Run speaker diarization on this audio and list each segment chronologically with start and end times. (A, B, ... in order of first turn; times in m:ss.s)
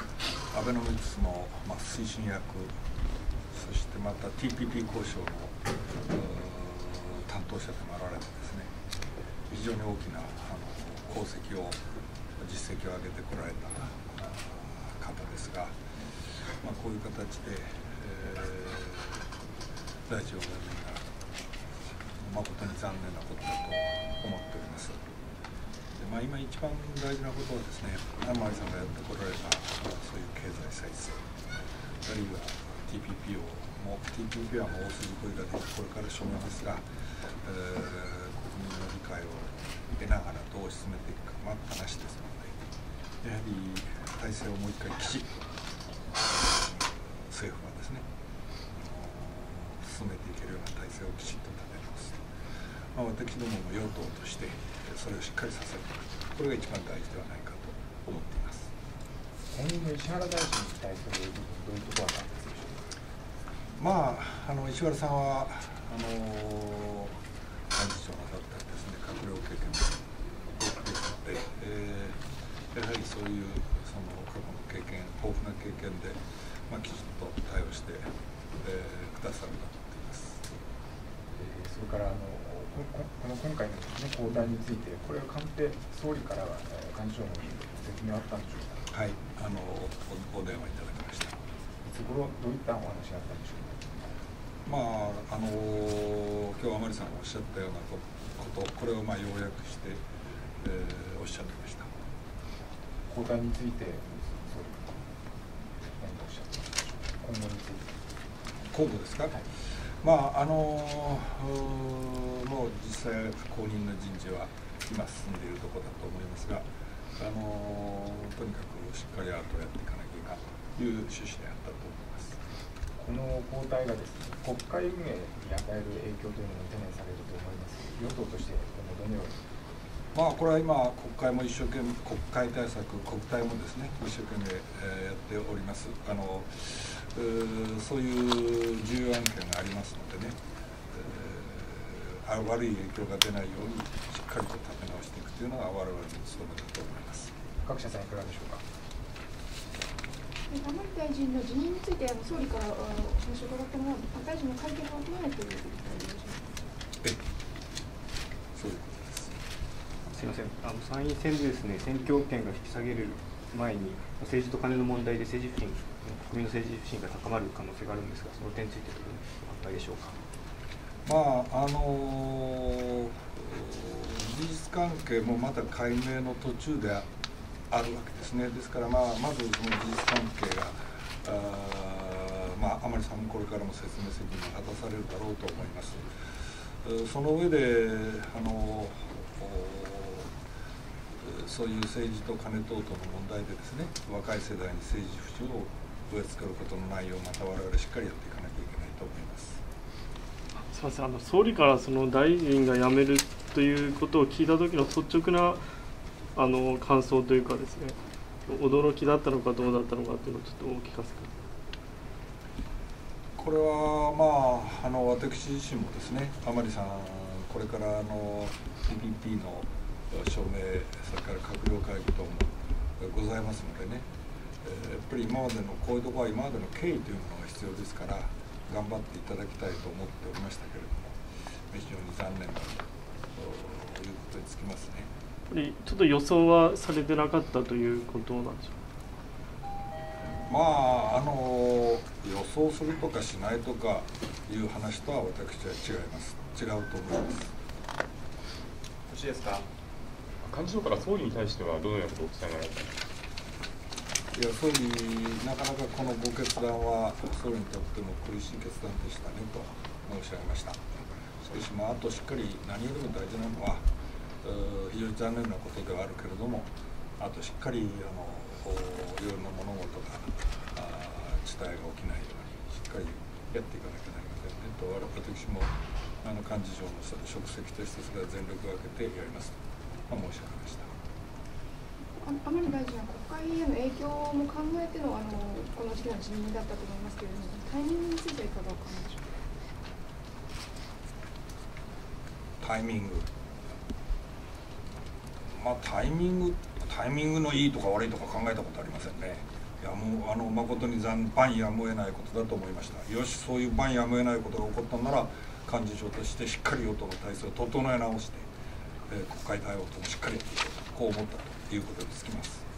0:00.5-0:02.7 A
0:03.5-0:08.7 A
0:09.5-0:11.8 A
0:12.4-0:15.8 A
0:16.6-0:19.2 A
0:20.1-0:21.1 A
0:22.2-0:25.0 A
0:25.9-0:31.2 A
0:32.0-0:36.8 A
0:37.4-0:42.6 A
0:43.2-0:45.4 A
0:46.2-0:48.0 A
0:48.7-0:52.2 A
0:52.9-0:58.7 A
0:59.5-1:02.8 B
1:03.8-1:07.2 A
1:07.7-1:10.0 A
1:10.6-1:12.2 A
1:12.7-1:20.4 A
1:21.4-1:28.8 B
1:28.9-1:31.4 A
1:31.8-1:34.1 B
1:34.6-1:40.0 A
1:40.6-1:41.9 A
1:43.1-1:45.0 B
1:46.0-1:47.9 B
1:48.7-1:49.4 A
1:50.0-1:56.7 A
1:57.2-2:02.4 A
2:03.0-2:09.4 B
2:10.1-2:20.4 A
2:20.9-2:27.3 A
2:27.6-2:28.6 B
2:30.5-2:36.5 C
2:38.5-2:39.4 A
2:40.1-2:50.2 D
2:51.0-2:57.1 A
2:57.7-3:06.1 A
3:06.8-3:10.3 A
3:11.2-3:19.6 A
3:20.6-3:25.6 E
3:26.3-3:31.3 E
3:33.4-3:44.0 A
3:44.6-3:51.2 A
3:51.7-3:55.1 A
3:55.5-3:58.7 E
4:00.5-4:07.5 A
4:10.4-4:13.0 F
4:14.3-4:20.8 A
4:21.4-4:23.8 A
4:24.4-4:39.6 A
4:40.1-4:40.9 A
4:42.2-4:49.4 C
4:52.6-4:53.3 A
4:55.5-5:08.5 A
5:09.1-5:12.6 A